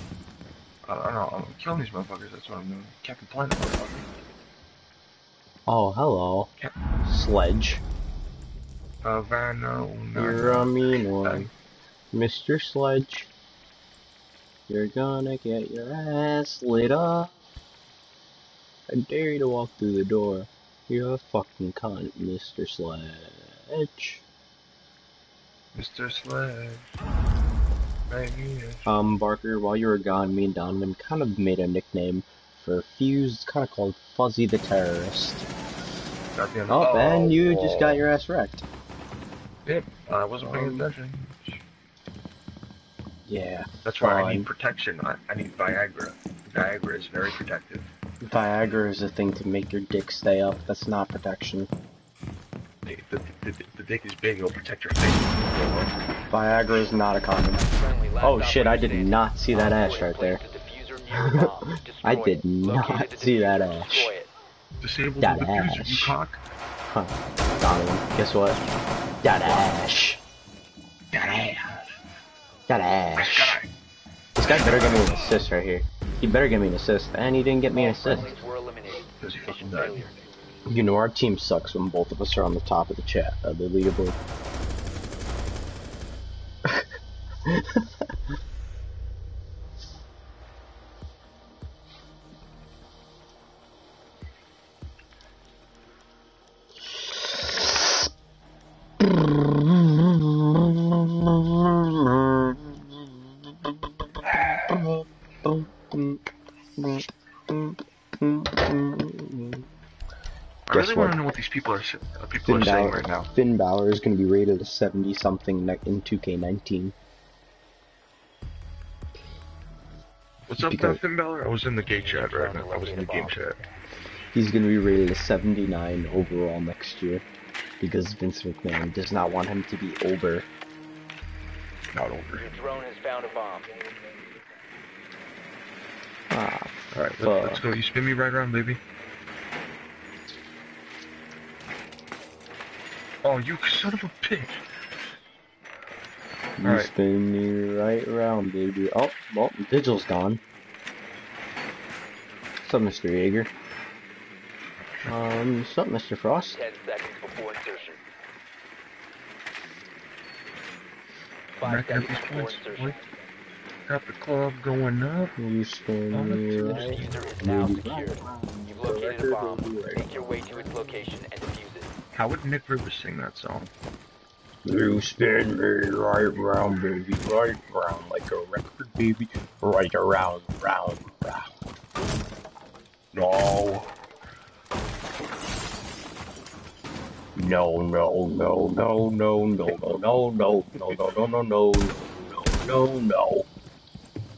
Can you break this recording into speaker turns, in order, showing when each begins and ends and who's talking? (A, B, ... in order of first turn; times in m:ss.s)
0:00.8-0:04.1 A
0:05.7-0:06.5 B
0:07.0-0:07.8 B
0:09.0-0:11.5 A
0:10.1-0:11.5 B
0:12.1-0:13.3 B
0:14.7-0:17.3 B
0:18.9-0:24.2 B
0:25.7-0:26.9 A
0:28.1-0:28.9 A
0:28.8-0:35.4 B
0:36.3-0:38.1 A
0:36.7-0:38.6 B
0:39.6-0:41.6 A
0:40.4-0:40.9 B
0:43.3-0:44.5 B
0:43.8-0:47.9 A
0:48.2-0:51.7 B
0:52.8-0:55.9 A
0:56.3-0:57.6 B
0:57.6-1:04.3 C
0:58.2-1:00.4 B
1:01.1-1:04.1 B
1:04.8-1:06.4 A
1:05.2-1:06.2 B
1:06.9-1:08.6 B
1:09.2-1:10.2 B
1:11.1-1:11.9 A
1:12.7-1:13.6 B
1:13.1-1:13.7 A
1:14.4-1:18.3 B
1:14.4-1:15.3 A
1:17.7-1:20.1 C
1:19.2-1:20.1 A
1:20.7-1:24.2 B
1:27.5-1:27.8 B
1:37.4-1:37.8 B
1:39.0-1:42.8 B
1:44.3-1:46.2 B
1:46.8-1:49.6 B
1:50.7-1:53.3 A
1:50.7-1:51.2 B
1:52.4-1:56.9 B
2:00.5-2:03.6 A
2:00.6-2:01.0 B
2:01.8-2:03.4 C
2:04.3-2:07.2 B
2:07.8-2:10.5 B
2:11.9-2:12.5 A
2:12.4-2:13.7 C
2:16.3-2:17.6 B
2:16.9-2:18.8 A
2:23.2-2:24.6 A
2:26.6-2:30.4 B
2:26.6-2:26.9 A
2:32.6-2:33.5 B
2:35.0-2:36.6 B
2:36.5-2:38.0 C
2:41.6-2:43.0 C
2:41.6-2:43.0 A
2:43.8-2:45.3 A
2:45.4-2:50.1 B
2:46.1-2:47.2 A
2:46.6-2:51.9 C
2:52.1-2:53.7 A
2:54.6-3:01.5 B
3:03.1-3:03.9 A
3:07.3-3:13.5 B
3:09.7-3:10.0 A